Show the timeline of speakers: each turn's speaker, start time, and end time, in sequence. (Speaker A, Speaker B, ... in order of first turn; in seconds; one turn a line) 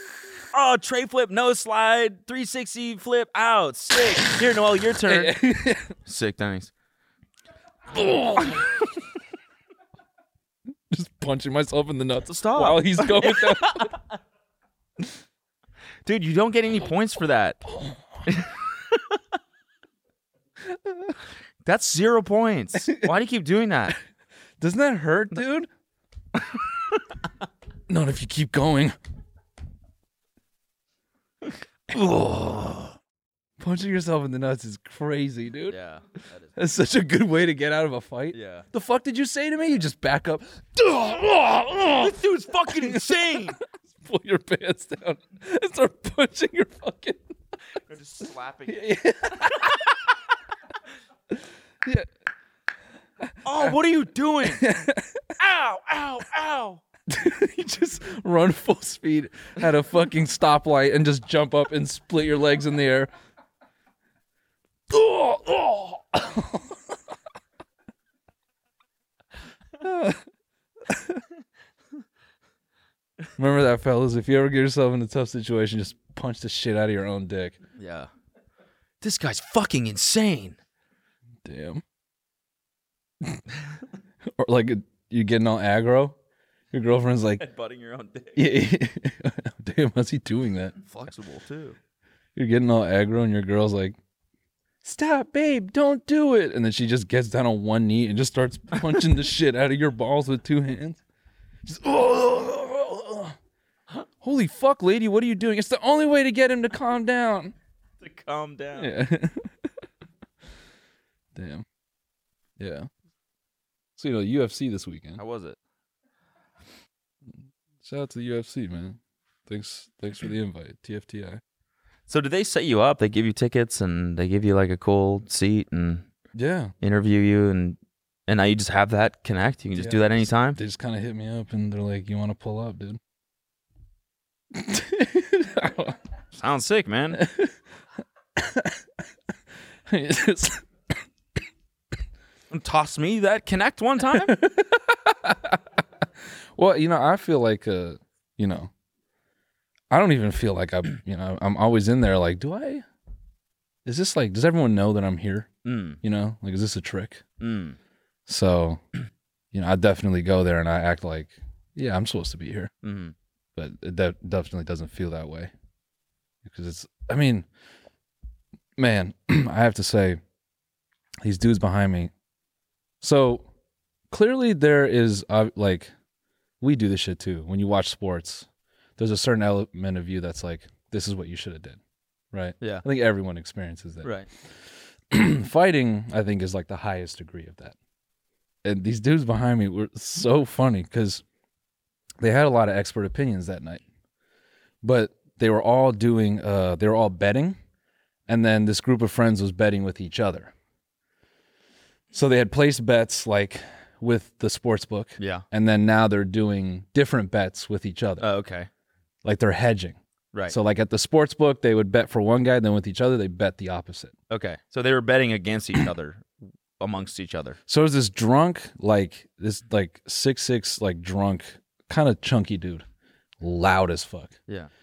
Speaker A: 0.5-5.4
Speaker B: 5.1-6.0
Speaker A: 6.0-6.7
Speaker B: 7.9-8.7
Speaker B: 10.9-13.9
Speaker A: 12.3-14.0
Speaker A: 16.1-17.6
Speaker A: 18.3-19.2
Speaker A: 21.6-23.9
Speaker B: 24.6-25.7
Speaker B: 27.9-28.9
Speaker A: 31.9-33.0
Speaker B: 33.6-35.8
Speaker A: 35.7-36.5
Speaker B: 36.6-42.1
Speaker A: 38.3-38.7
Speaker A: 42.0-43.6
Speaker B: 42.7-47.2
Speaker A: 47.9-48.9
Speaker B: 48.7-49.8
Speaker A: 53.5-54.7
Speaker B: 54.5-55.3
Speaker A: 55.4-56.8
Speaker B: 57.1-63.1
Speaker B: 64.9-66.8
Speaker B: 69.8-70.2
Speaker B: 70.9-71.2
Speaker B: 73.4-77.6
Speaker A: 77.8-78.1
Speaker A: 79.0-80.6
Speaker B: 81.5-81.8
Speaker B: 84.4-86.2
Speaker B: 86.7-87.5
Speaker A: 87.4-88.5
Speaker B: 88.4-90.8
Speaker A: 90.8-91.8
Speaker B: 92.4-94.0
Speaker B: 94.8-101.0
Speaker B: 101.7-103.4
Speaker B: 104.2-107.5
Speaker A: 108.0-108.9
Speaker B: 108.8-109.5
Speaker B: 111.3-111.6
Speaker B: 112.6-112.9
Speaker B: 114.0-115.2
Speaker A: 115.2-115.6
Speaker B: 117.8-121.4
Speaker A: 122.1-126.1
Speaker B: 126.3-126.7
Speaker A: 126.8-130.6
Speaker B: 129.8-133.0
Speaker B: 134.5-136.0
Speaker A: 136.3-137.2
Speaker B: 137.1-137.5
Speaker B: 138.4-138.8
Speaker B: 139.9-140.7
Speaker A: 142.5-144.4
Speaker B: 144.1-145.6
Speaker B: 146.6-148.7
Speaker B: 149.9-152.8
Speaker B: 153.8-155.5
Speaker A: 155.7-156.0
Speaker B: 156.0-157.2
Speaker A: 157.4-157.8
Speaker B: 158.3-158.8
Speaker B: 159.5-162.7
Speaker A: 162.8-163.2
Speaker B: 163.6-165.5
Speaker B: 166.4-167.5
Speaker B: 168.8-170.2
Speaker B: 171.2-172.1
Speaker B: 173.0-173.5
Speaker B: 174.1-175.9
Speaker B: 176.6-178.5
Speaker B: 179.0-181.8
Speaker B: 182.3-184.1
Speaker A: 184.0-184.3
Speaker B: 185.1-187.8
Speaker B: 188.6-191.2
Speaker B: 192.2-193.8
Speaker B: 194.8-197.6
Speaker B: 198.3-200.5
Speaker B: 202.1-208.3
Speaker A: 205.2-205.4
Speaker A: 208.2-208.7
Speaker B: 209.2-214.1
Speaker A: 214.3-217.6
Speaker B: 217.7-222.8
Speaker B: 223.4-224.4